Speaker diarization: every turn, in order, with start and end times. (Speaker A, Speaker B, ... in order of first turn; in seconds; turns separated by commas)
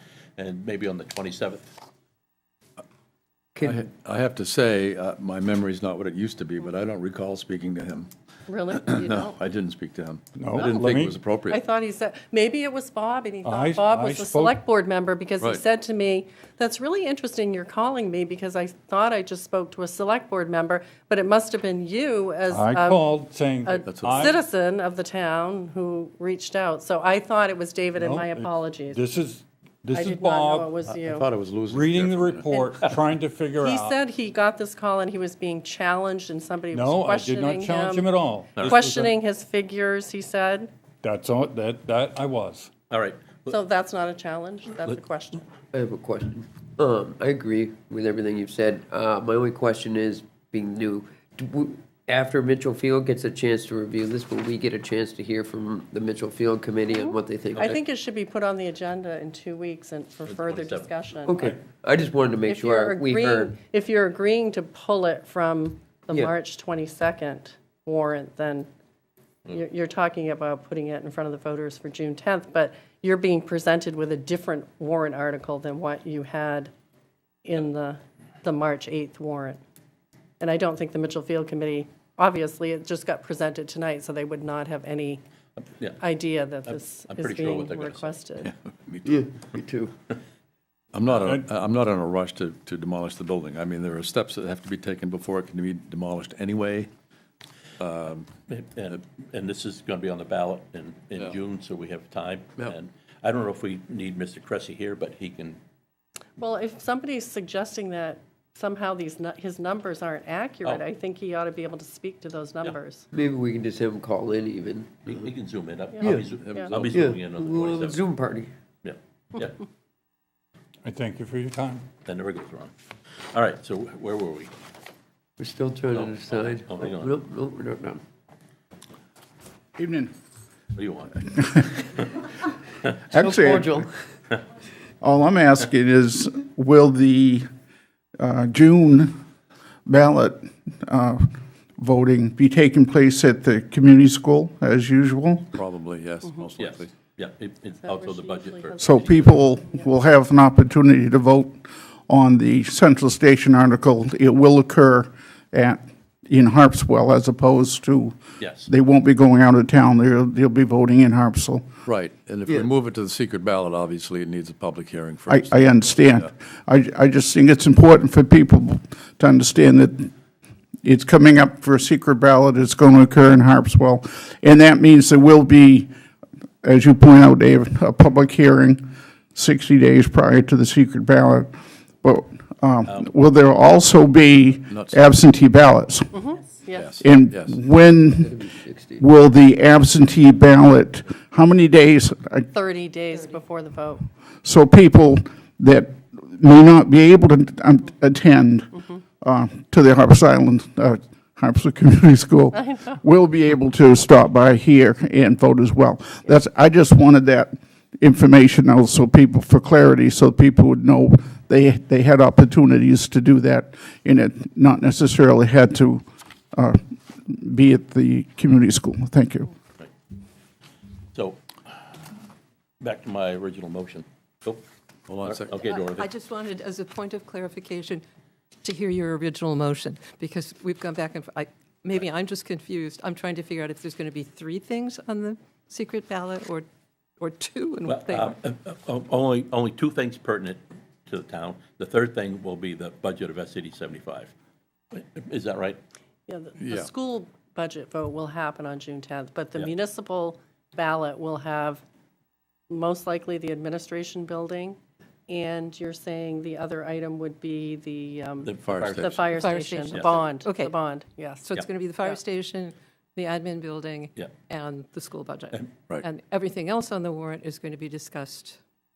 Speaker A: 0.4-1.8, Speaker B: 3.6-3.8, Speaker C: 3.6-8.1, Speaker D: 8.5-9.3, Speaker C: 8.8-11.6, Speaker E: 10.3-11.2, Speaker D: 11.5-23.0, Speaker E: 13.4-14.6, Speaker E: 22.5-24.3, Speaker D: 23.6-29.0, Speaker C: 23.9-24.3, Speaker E: 28.0-30.7, Speaker D: 29.9-31.3, Speaker C: 30.9-32.5, Speaker E: 31.7-34.0, Speaker D: 33.6-38.1, Speaker E: 36.7-39.1, Speaker A: 38.6-38.8, Speaker D: 38.6-40.7, Speaker E: 41.0-42.7, Speaker A: 42.9-43.5, Speaker D: 43.5-45.5, Speaker B: 45.7-57.8, Speaker D: 57.6-61.4, Speaker A: 60.3-60.9, Speaker B: 61.3-63.5, Speaker D: 62.5-68.7, Speaker D: 69.5-76.7, Speaker D: 77.5-79.6, Speaker D: 80.4-85.2, Speaker D: 86.0-88.5, Speaker A: 86.7-88.2, Speaker C: 88.5-89.2, Speaker B: 89.1-89.9, Speaker C: 90.9-96.9, Speaker C: 97.8-98.3, Speaker A: 98.5-105.6, Speaker D: 106.4-113.1, Speaker B: 113.1-115.2, Speaker A: 115.0-118.1, Speaker D: 116.0-116.7, Speaker B: 116.0-116.3, Speaker C: 116.4-117.2, Speaker B: 116.9-118.5, Speaker A: 118.8-119.6, Speaker E: 120.8-121.9, Speaker A: 122.0-122.7, Speaker A: 123.3-124.5, Speaker B: 125.4-128.0, Speaker A: 125.9-127.2, Speaker F: 129.8-130.1, Speaker A: 130.8-131.3, Speaker F: 131.3-131.8, Speaker F: 133.1-133.8, Speaker B: 133.1-133.9, Speaker F: 135.0-137.5, Speaker F: 138.2-139.1, Speaker F: 139.9-145.5, Speaker C: 145.5-146.9, Speaker A: 146.6-149.3, Speaker D: 147.8-149.9, Speaker F: 148.8-161.7, Speaker A: 158.4-158.7, Speaker C: 161.9-166.3, Speaker F: 165.3-170.1, Speaker F: 170.8-175.9, Speaker F: 176.6-186.1, Speaker C: 184.7-185.0, Speaker D: 186.1-186.9, Speaker C: 186.8-187.6, Speaker F: 187.0-188.4, Speaker B: 188.2-189.0, Speaker F: 189.0-192.5, Speaker D: 192.5-194.1, Speaker F: 194.4-219.5, Speaker A: 221.1-221.4, Speaker A: 222.8-224.7, Speaker C: 225.1-225.6, Speaker A: 225.2-226.1, Speaker G: 225.6-228.0, Speaker G: 228.6-236.7, Speaker G: 237.2-238.3, Speaker A: 237.8-244.3, Speaker A: 244.9-245.8, Speaker D: 246.3-251.8, Speaker C: 246.6-246.9, Speaker D: 252.7-261.5, Speaker A: 258.4-259.3, Speaker C: 258.6-259.3, Speaker G: 259.3-260.7, Speaker A: 259.9-260.2, Speaker G: 261.4-268.6